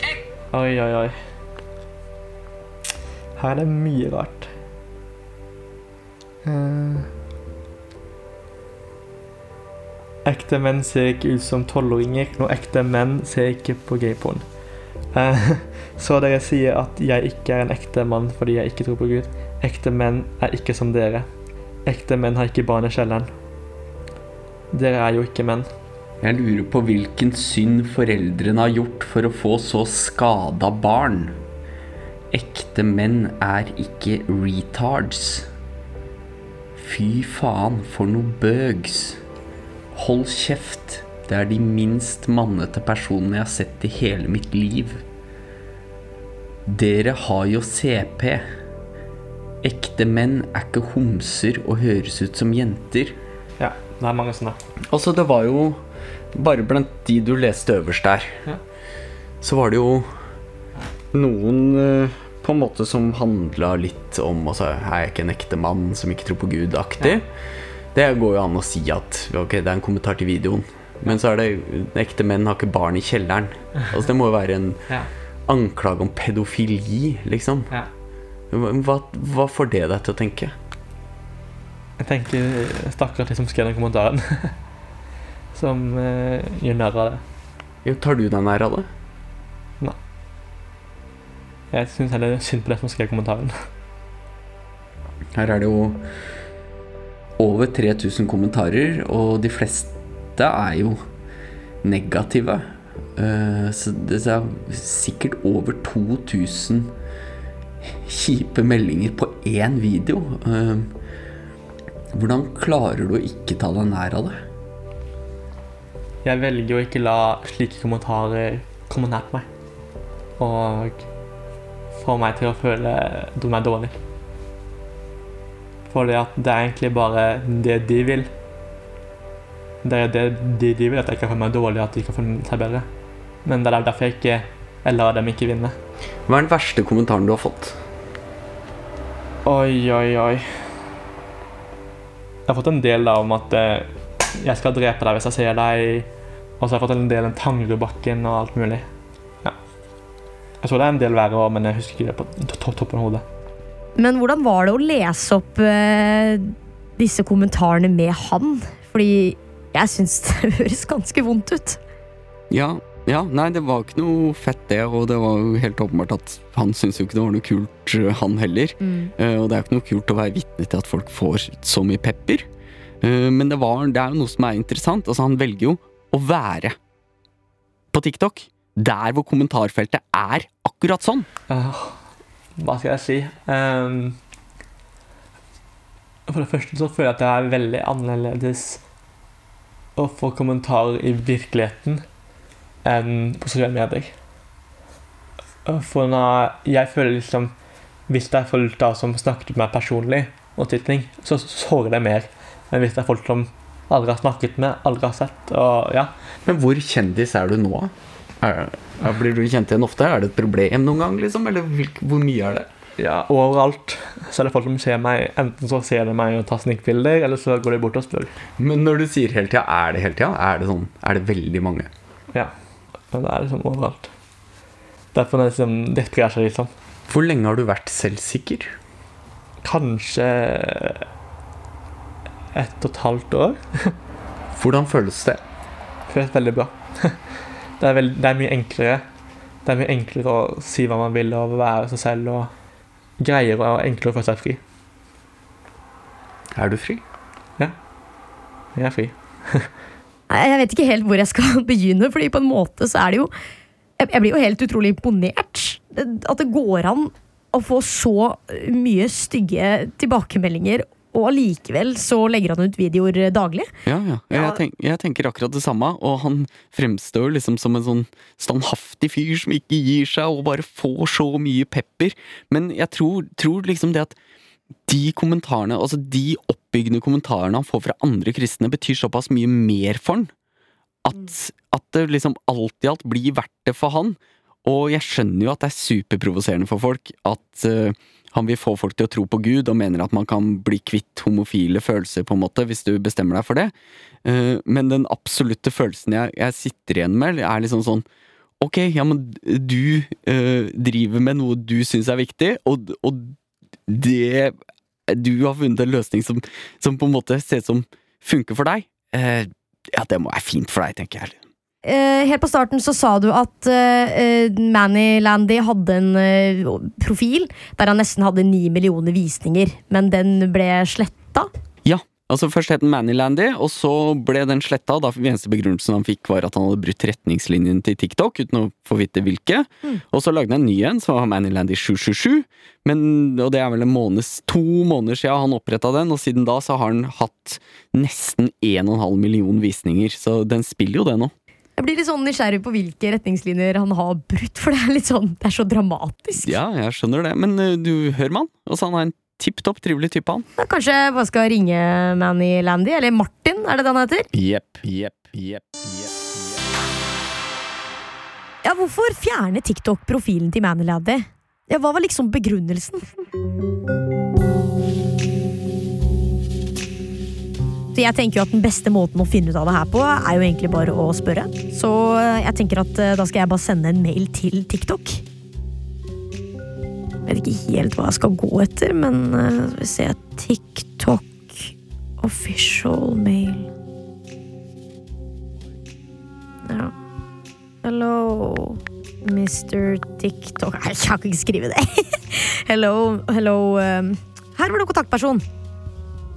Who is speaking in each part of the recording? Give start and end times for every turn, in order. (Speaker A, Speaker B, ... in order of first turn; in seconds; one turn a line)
Speaker A: 0.5-1.1
Speaker A: 3.4-4.5
Speaker A: 6.4-7.1
Speaker A: 10.2-14.4
Speaker A: 15.1-21.3
Speaker A: 21.9-23.3
Speaker A: 24.7-25.7
Speaker B: 26.2-31.4
Speaker B: 32.3-35.5
Speaker B: 36.8-39.2
Speaker B: 39.9-45.0
Speaker B: 46.6-48.5
Speaker B: 49.6-53.2
Speaker A: 53.6-54.6
Speaker B: 54.9-55.8
Speaker B: 56.3-58.4
Speaker B: 59.4-60.1
Speaker B: 61.1-67.3
Speaker B: 67.9-77.7
Speaker B: 78.5-80.5
Speaker A: 82.0-84.5
Speaker A: 85.5-87.2
Speaker B: 87.8-88.9
Speaker A: 91.7-93.6
Speaker B: 95.3-96.0
Speaker B: 97.4-101.0
Speaker B: 101.8-106.9
Speaker B: 107.8-111.0
Speaker B: 112.1-114.4
Speaker A: 116.2-119.5
Speaker A: 120.4-121.0
Speaker A: 122.0-124.0
Speaker A: 125.9-128.3
Speaker A: 129.8-132.8
Speaker A: 133.4-135.8
Speaker B: 136.3-137.8
Speaker A: 139.4-140.7
Speaker A: 142.5-146.1
Speaker A: 146.6-148.9
Speaker A: 150.6-153.2
Speaker C: 154.0-161.8
Speaker B: 162.5-172.5
Speaker C: 168.8-169.1
Speaker B: 173.0-176.8
Speaker B: 177.9-181.3
Speaker A: 181.5-182.0
Speaker A: 182.6-184.2
Speaker A: 186.3-188.8
Speaker A: 189.9-192.0
Speaker A: 192.8-194.1
Speaker A: 195.7-197.5
Speaker A: 198.1-206.1
Speaker B: 206.4-212.7
Speaker A: 213.0-218.3
Speaker B: 218.6-221.9
Speaker A: 223.1-224.1
Speaker A: 225.1-226.7
Speaker B: 227.1-228.7
Speaker A: 229.6-231.1
Speaker A: 232.5-233.9
Speaker B: 234.5-235.4
Speaker A: 236.1-239.0
Speaker A: 239.6-242.5
Speaker A: 243.2-244.6
Speaker B: 246.5-247.0
Speaker A: 248.7-249.7
Speaker C: 250.3-253.3
Speaker C: 254.0-263.7
Speaker B: 263.9-274.1
Speaker C: 264.3-264.6
Speaker B: 274.9-280.3
Speaker B: 281.0-293.7
Speaker B: 294.2-298.0
Speaker B: 298.6-303.4
Speaker B: 303.9-304.6
Speaker B: 305.1-311.4
Speaker C: 311.8-321.5
Speaker B: 321.8-341.3
Speaker C: 341.8-346.6
Speaker B: 346.4-350.4
Speaker C: 350.6-354.3
Speaker B: 354.3-356.6
Speaker C: 358.6-363.2
Speaker C: 367.9-375.2
Speaker C: 377.2-383.7
Speaker C: 386.6-386.9
Speaker C: 387.8-395.4